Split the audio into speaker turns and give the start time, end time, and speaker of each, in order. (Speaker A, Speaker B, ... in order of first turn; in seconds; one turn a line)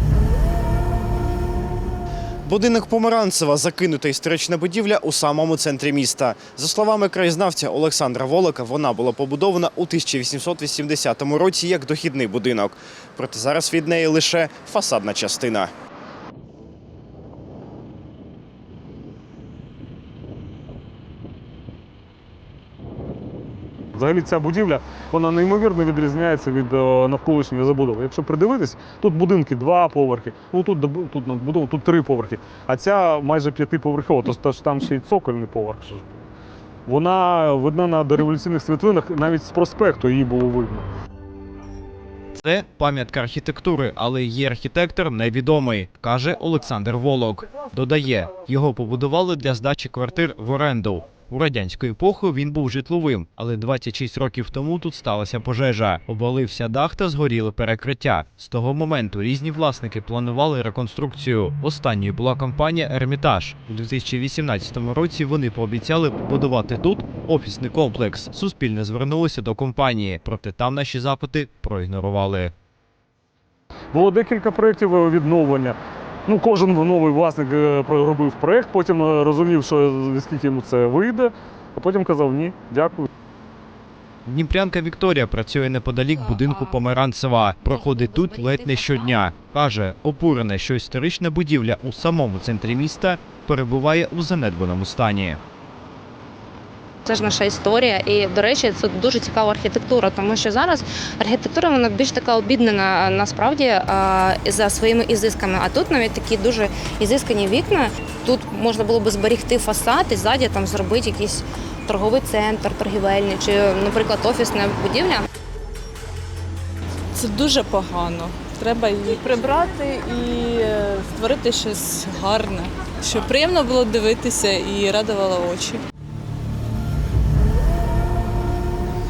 Speaker A: 2.4-15.7
Speaker B: 23.9-36.2
Speaker B: 36.9-40.8
Speaker A: 42.4-72.5
Speaker B: 73.9-83.1
Speaker A: 84.2-95.4
Speaker C: 86.2-86.8
Speaker C: 87.6-89.2
Speaker C: 97.0-115.2
Speaker D: 117.1-125.8